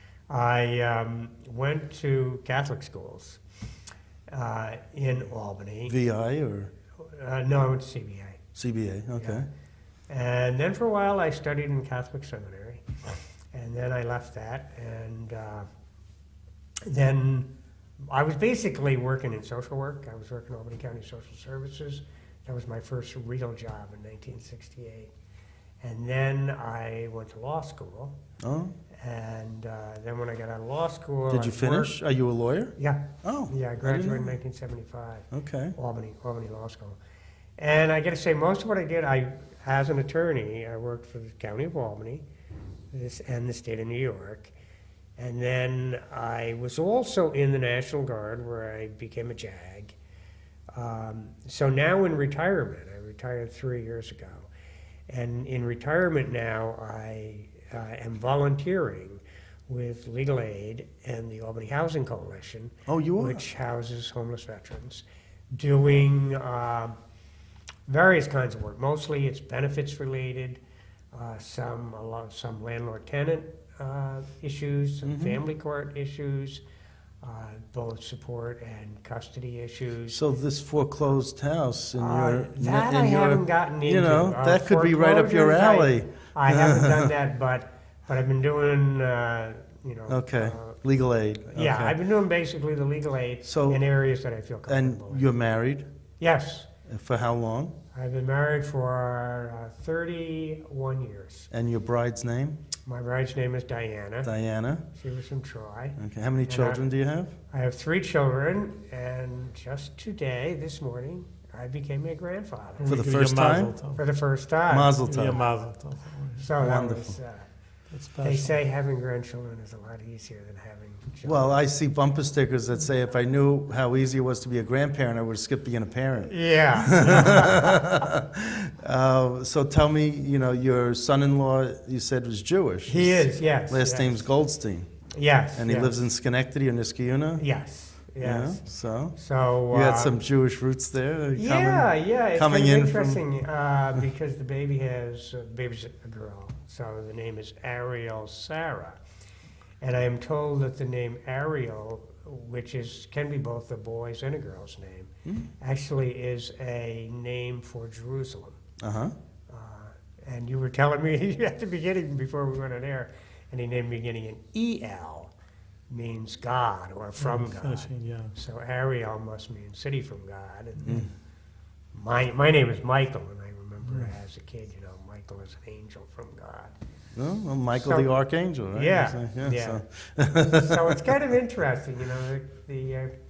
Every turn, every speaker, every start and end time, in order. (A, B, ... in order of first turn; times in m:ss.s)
0:00.3-0:03.4 A
0:04.3-0:05.9 A
0:05.9-0:06.7 B
0:07.0-0:08.4 A
0:08.6-0:09.5 B
0:09.2-0:09.4 A
0:10.1-0:12.9 A
0:13.5-0:15.7 A
0:16.8-0:17.5 A
0:18.0-0:25.1 A
0:25.8-0:28.2 A
0:28.4-0:28.7 B
0:28.9-0:31.9 A
0:31.3-0:34.3 B
0:32.8-0:37.0 A
0:35.3-0:35.7 B
0:37.6-0:42.2 A
0:42.9-0:44.5 A
0:45.2-0:50.0 A
0:50.7-0:54.5 A
0:55.1-1:07.0 A
1:02.9-1:03.4 B
1:07.9-1:10.6 A
1:11.1-1:16.6 A
1:15.0-1:15.4 B
1:17.2-1:20.2 A
1:20.1-1:27.1 B
1:21.9-1:30.8 A
1:30.1-1:31.9 B
1:31.5-1:35.3 A
1:33.4-1:33.8 B
1:34.7-1:35.8 B
1:36.2-1:36.7 A
1:36.9-1:37.7 B
1:37.9-1:41.5 A
1:41.5-1:42.6 B
1:42.8-1:44.3 A
1:44.2-1:44.8 B
1:44.9-1:46.8 A
1:46.0-1:47.3 B
1:47.5-1:53.0 A
1:52.8-1:54.0 C
1:52.9-1:53.7 B
1:53.9-1:55.3 A
1:54.7-1:55.4 B
1:55.0-1:56.5 C
1:56.4-1:57.5 A
1:56.6-1:57.2 B
1:57.9-1:58.5 C
1:58.2-2:01.6 A
2:01.2-2:14.9 B
2:06.2-2:07.8 A
2:12.9-2:14.2 A
2:15.1-2:15.9 A
2:15.6-2:17.4 B
2:17.4-2:18.6 A
2:18.2-2:19.2 B
2:19.1-2:20.1 A
2:19.7-2:23.2 B
2:21.4-2:29.0 A
2:29.8-2:38.6 A
2:38.8-2:39.1 B
2:39.5-2:45.3 A
2:45.9-2:51.1 A
2:47.2-2:48.3 C
2:51.9-2:56.7 A
2:57.2-3:01.0 B
2:57.7-2:58.1 A
2:58.7-2:59.8 A
3:00.4-3:03.1 A